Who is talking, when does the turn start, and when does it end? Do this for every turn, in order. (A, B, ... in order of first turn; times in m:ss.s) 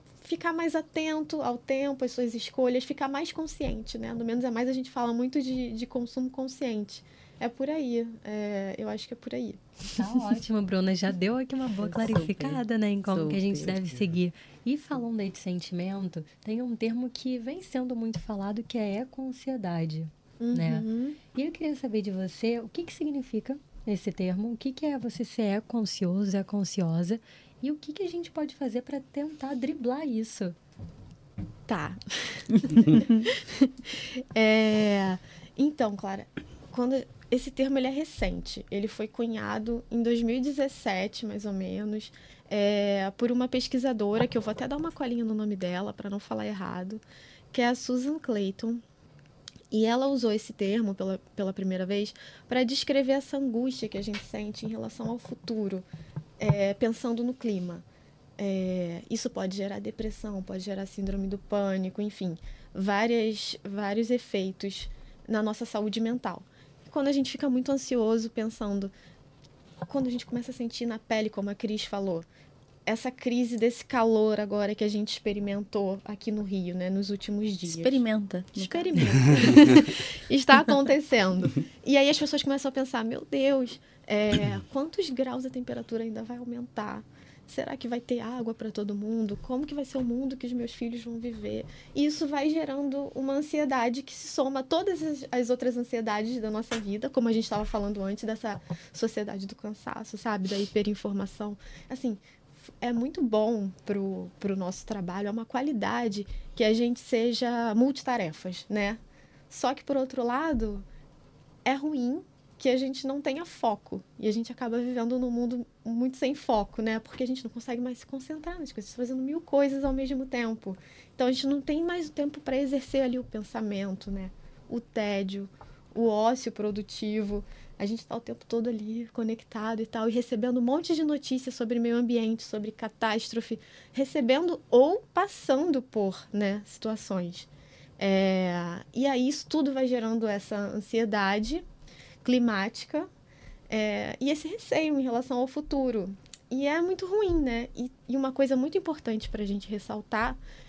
0:00.2-0:09.6 A
0:10.0-0:30.6 B
0:11.8-0:13.7 C
0:20.4-0:21.2 A
0:31.7-0:48.8 A
0:32.5-0:33.3 C
0:49.7-0:55.8 A
0:56.4-0:57.8 A
0:58.4-1:08.9 A
1:09.8-1:12.3 A
1:12.9-1:18.0 A
1:17.7-1:19.9 C
1:18.6-1:42.2 A
1:42.8-1:50.8 A
1:51.6-2:17.5 A
2:18.0-2:21.6 A
2:22.2-2:23.1 A
2:23.7-2:30.4 A